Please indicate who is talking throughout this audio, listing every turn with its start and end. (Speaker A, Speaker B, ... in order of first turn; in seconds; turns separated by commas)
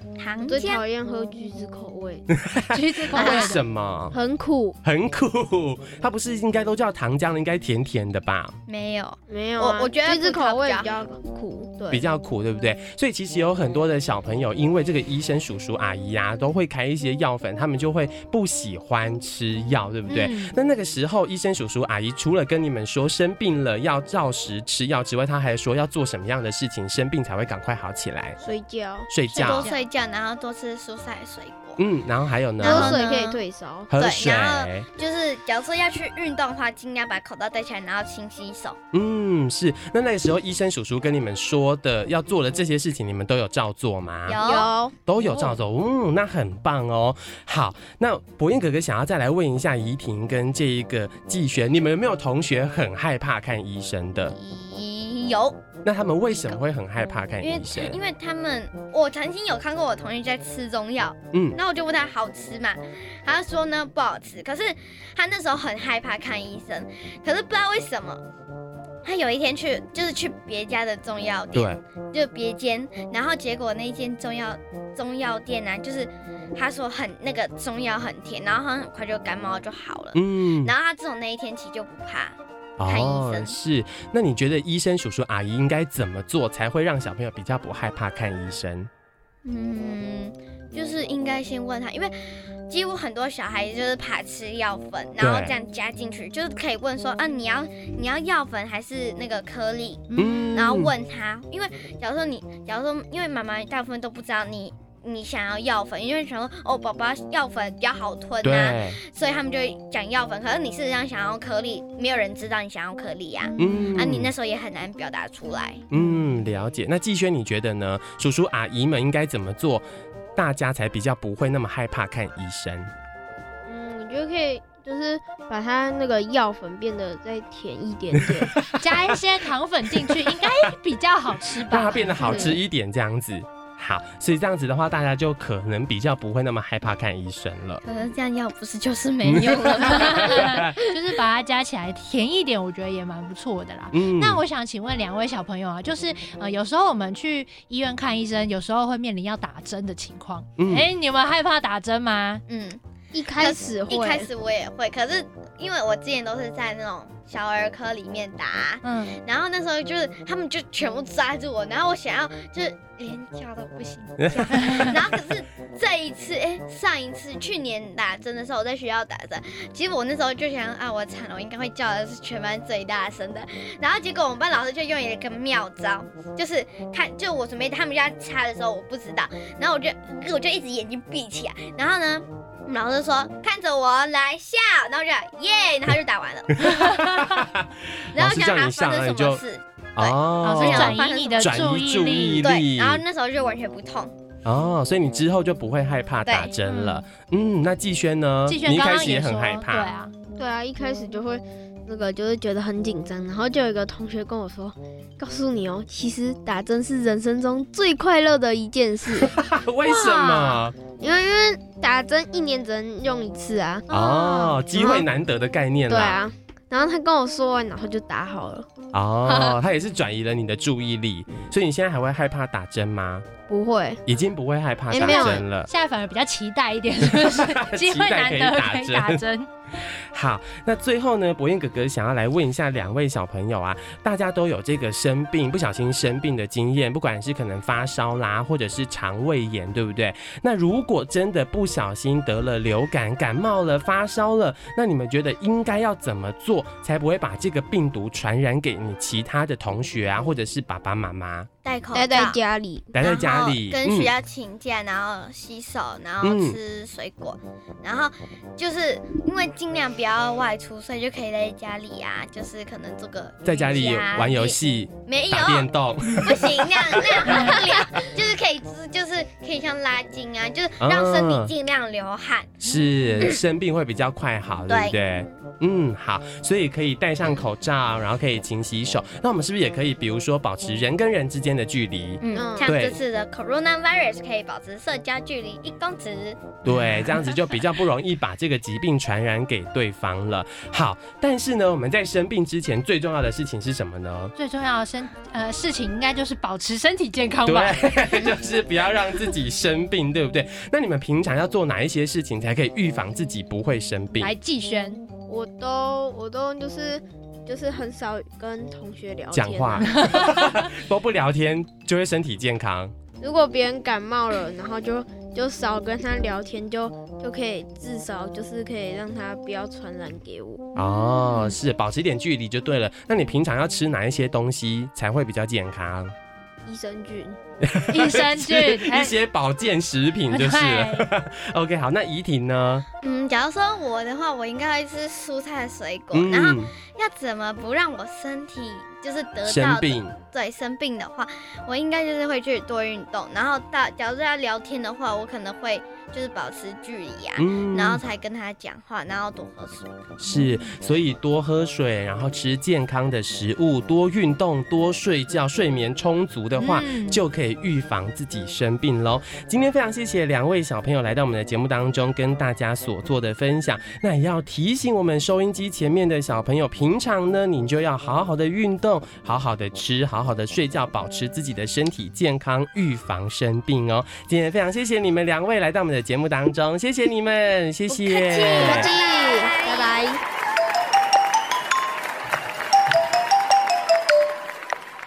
Speaker A: 0.2-0.8, Speaker B: 0.4-2.3, Speaker C: 2.4-4.2, Speaker D: 2.7-3.6, Speaker A: 3.1-3.5, Speaker B: 4.1-4.8, Speaker C: 4.8-8.6, Speaker A: 8.7-11.0, Speaker B: 9.3-12.1, Speaker C: 11.9-28.4, Speaker D: 20.1-20.6, Speaker B: 28.4-29.1, Speaker C: 29.1-29.7, Speaker A: 29.3-31.8, Speaker D: 29.4-29.8, Speaker C: 31.8-33.0, Speaker A: 32.6-33.4, Speaker B: 32.6-33.9, Speaker C: 33.9-34.9, Speaker A: 34.0-38.8, Speaker C: 38.9-44.4, Speaker A: 44.3-44.7, Speaker B: 44.4-45.0, Speaker C: 45.1-54.4, Speaker A: 54.3-55.6, Speaker C: 55.9-58.0, Speaker A: 56.3-56.6, Speaker A: 57.4-68.2, Speaker C: 61.3-61.6, Speaker A: 69.0-83.6, Speaker C: 71.5-71.8, Speaker C: 80.2-80.7, Speaker C: 82.8-88.9, Speaker A: 89.5-115.9, Speaker C: 95.2-95.6, Speaker D: 100.1-100.5, Speaker C: 100.2-100.9, Speaker C: 108.4-109.0, Speaker D: 113.4-113.9, Speaker C: 113.6-114.3, Speaker C: 115.9-122.9, Speaker D: 115.9-116.3, Speaker B: 123.7-128.6, Speaker C: 128.4-129.3, Speaker D: 128.7-132.6, Speaker C: 129.9-130.6, Speaker C: 131.6-137.8, Speaker B: 132.2-132.6, Speaker A: 137.8-140.9, Speaker C: 139.2-140.7, Speaker D: 139.8-152.4, Speaker C: 143.9-144.4, Speaker C: 150.6-150.9, Speaker A: 152.5-152.8, Speaker B: 153.1-154.3, Speaker A: 153.3-186.7, Speaker D: 158.8-159.2, Speaker C: 164.2-164.9, Speaker D: 164.6-164.9, Speaker C: 186.6-189.4, Speaker D: 186.9-187.2, Speaker A: 188.1-191.7, Speaker C: 190.0-193.0, Speaker D: 190.4-192.5, Speaker A: 192.4-194.1, Speaker C: 194.4-199.9, Speaker A: 196.2-196.5, Speaker D: 196.7-197.0, Speaker D: 198.5-200.1, Speaker B: 200.4-209.3, Speaker C: 209.2-210.8, Speaker D: 209.8-210.7, Speaker B: 210.9-213.9, Speaker C: 213.9-216.2, Speaker D: 213.9-215.0, Speaker B: 214.7-215.1, Speaker B: 215.9-218.7, Speaker C: 218.9-223.3, Speaker B: 223.5-224.0, Speaker C: 224.1-225.7, Speaker B: 224.9-225.4, Speaker D: 224.9-229.5, Speaker C: 227.1-251.5, Speaker A: 251.6-252.4, Speaker B: 251.9-252.9, Speaker C: 252.9-254.1, Speaker A: 253.0-272.6, Speaker C: 256.2-256.6, Speaker C: 263.4-267.5, Speaker C: 270.8-271.5, Speaker C: 272.6-283.0, Speaker A: 274.7-275.0, Speaker A: 282.2-286.6, Speaker B: 282.3-282.7, Speaker C: 286.6-294.3, Speaker D: 286.7-287.2, Speaker D: 294.4-298.0, Speaker C: 297.4-304.3, Speaker D: 304.1-305.1, Speaker B: 305.3-310.2, Speaker C: 309.3-312.9, Speaker D: 309.8-310.7, Speaker B: 313.2-320.6, Speaker C: 320.8-326.1, Speaker D: 320.8-321.6, Speaker B: 326.7-327.4, Speaker C: 327.6-332.9, Speaker D: 327.9-329.2, Speaker D: 330.3-331.1, Speaker A: 333.0-349.9, Speaker C: 336.1-336.7, Speaker C: 339.4-340.2, Speaker C: 347.4-348.0, Speaker C: 350.2-378.9, Speaker D: 356.6-357.2, Speaker A: 377.9-380.1, Speaker B: 378.6-380.2